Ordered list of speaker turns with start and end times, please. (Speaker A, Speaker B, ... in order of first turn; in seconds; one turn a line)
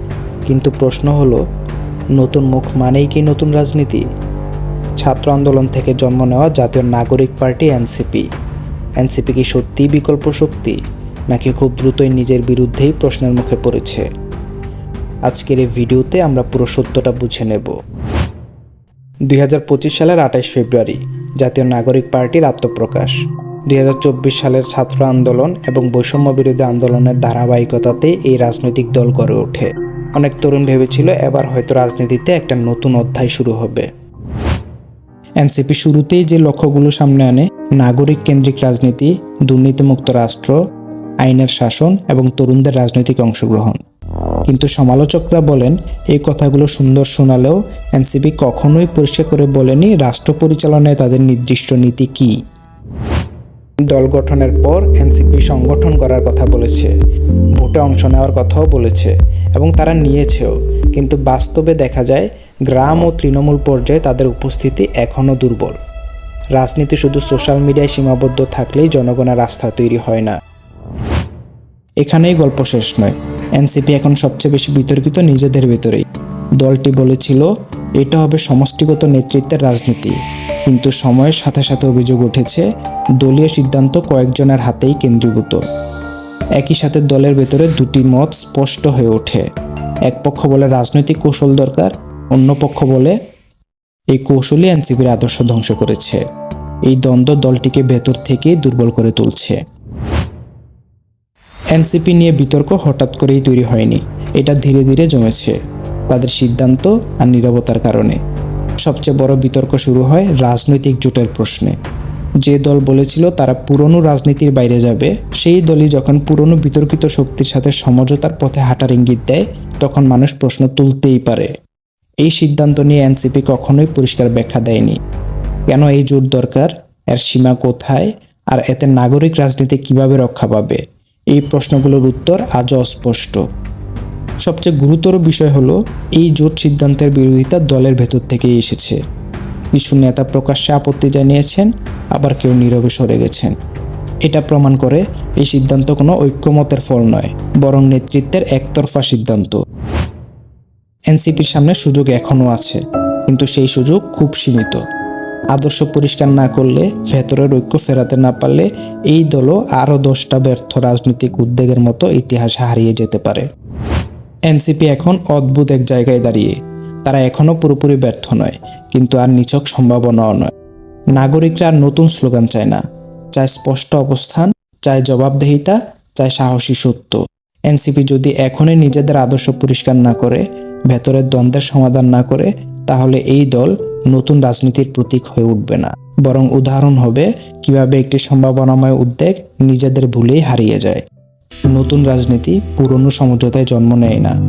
Speaker A: 0.5-1.4
Speaker A: 2.1-4.1
Speaker A: 5.0-8.3
Speaker A: 9.0-10.8
Speaker A: 11.3-14.1
Speaker A: 15.2-17.7
Speaker A: 19.3-23.1
Speaker A: 23.7-33.9
Speaker A: 35.4-40.6
Speaker A: 41.2-43.8
Speaker A: 44.5-52.4
Speaker A: 53.9-56.9
Speaker A: 57.5-65.8
Speaker A: 66.5-70.4
Speaker A: 72.0-76.0
Speaker A: 76.6-82.7
Speaker A: 83.2-85.6
Speaker A: 86.5-89.5
Speaker A: 90.0-93.2
Speaker A: 94.1-96.2
Speaker A: 96.8-99.6
Speaker A: 101.7-105.6
Speaker A: 106.1-108.2
Speaker A: 108.8-111.8
Speaker A: 112.4-121.5
Speaker A: 122.2-125.0
Speaker A: 125.7-130.8
Speaker A: 131.3-133.4
Speaker A: 134.4-139.0
Speaker A: 139.7-143.5
Speaker A: 144.2-149.6
Speaker A: 151.1-154.8
Speaker A: 155.5-163.4
Speaker A: 164.5-166.5
Speaker A: 167.0-170.5
Speaker A: 171.1-172.8
Speaker A: 173.3-191.0
Speaker A: 191.7-194.3